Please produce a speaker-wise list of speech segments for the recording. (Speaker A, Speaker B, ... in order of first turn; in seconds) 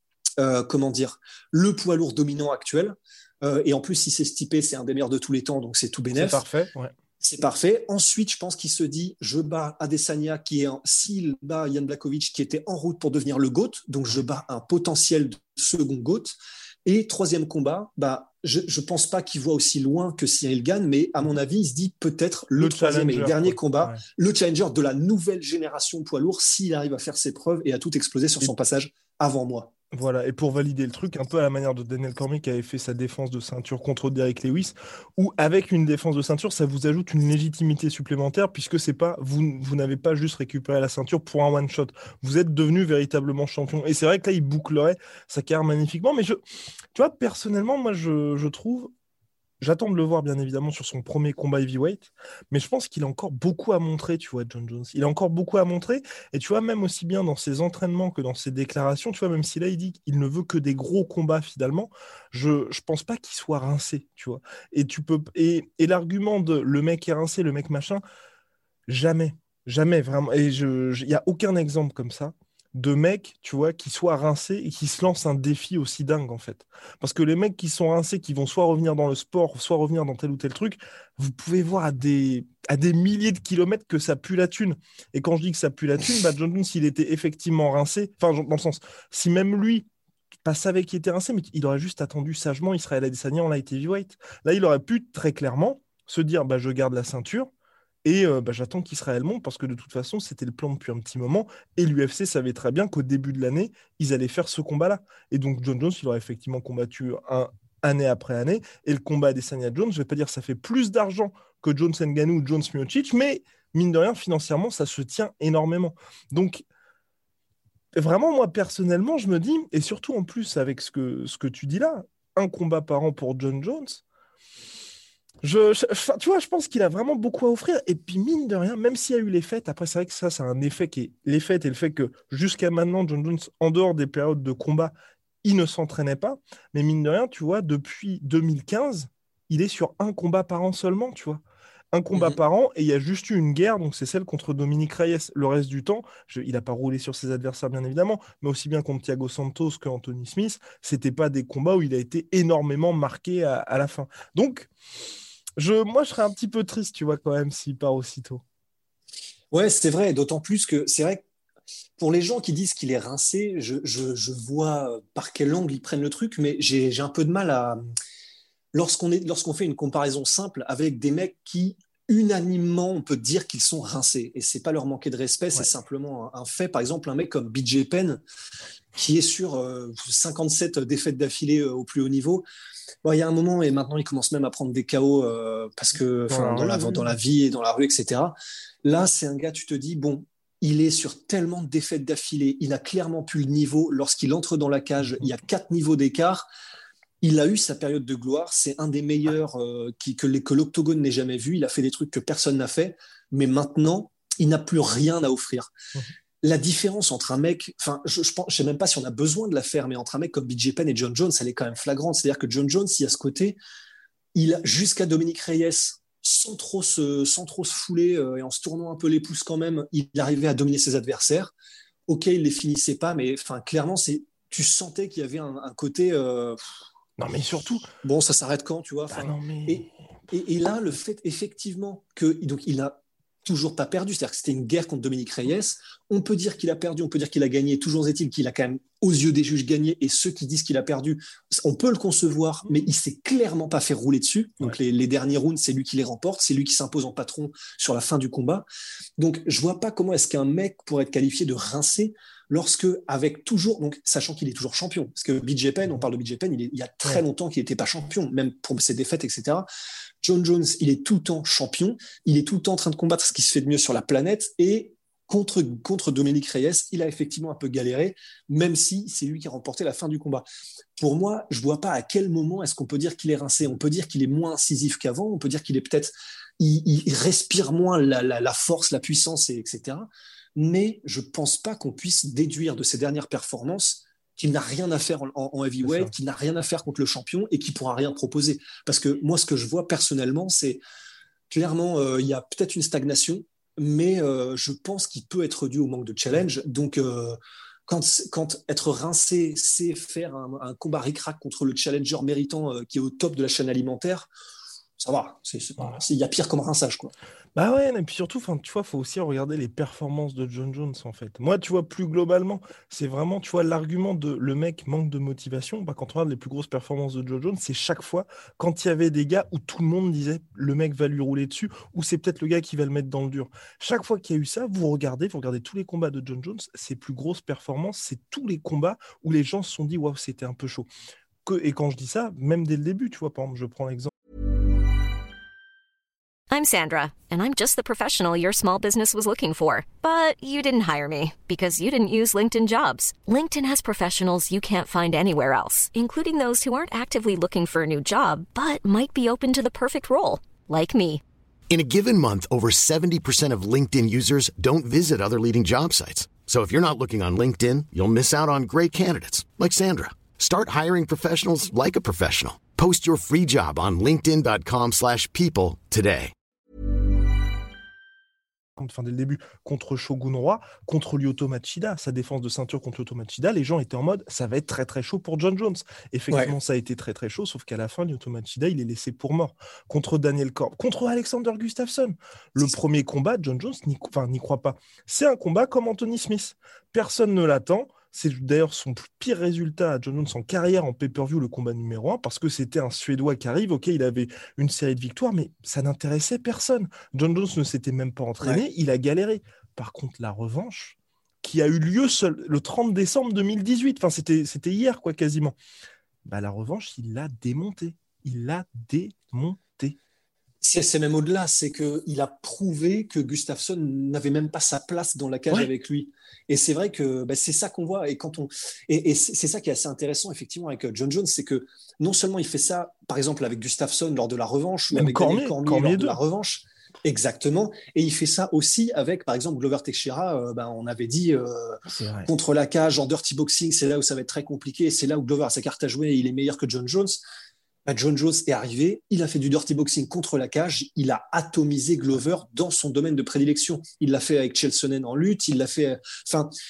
Speaker A: 0.4-6.4, 7.2-29.7, 159.5-161.2, 162.0-167.8, 168.7-178.2, 178.9-182.4, 183.0-196.5, 197.2-205.7, 206.4-213.6, 214.3-221.5, 222.1-226.6, 228.0-248.7, 249.2-259.6, 260.2-290.8, 291.5-304.3, 305.0-307.1, 410.6-437.2, 437.9-446.5
Speaker B: 6.1-6.9, 22.6-24.0, 29.9-46.4, 46.9-48.9, 49.6-68.0, 68.9-89.8, 90.4-97.5, 98.0-116.6, 118.0-124.0, 125.4-134.9, 135.4-141.4, 141.9-154.7, 155.6-158.4, 186.3-187.1, 227.2-227.9, 229.1-229.9, 285.8-286.1, 307.6-330.9, 331.4-334.1, 368.8-405.6, 406.2-409.9, 424.9-426.2, 431.9-432.3
Speaker C: 336.5-351.2
Speaker D: 351.7-366.3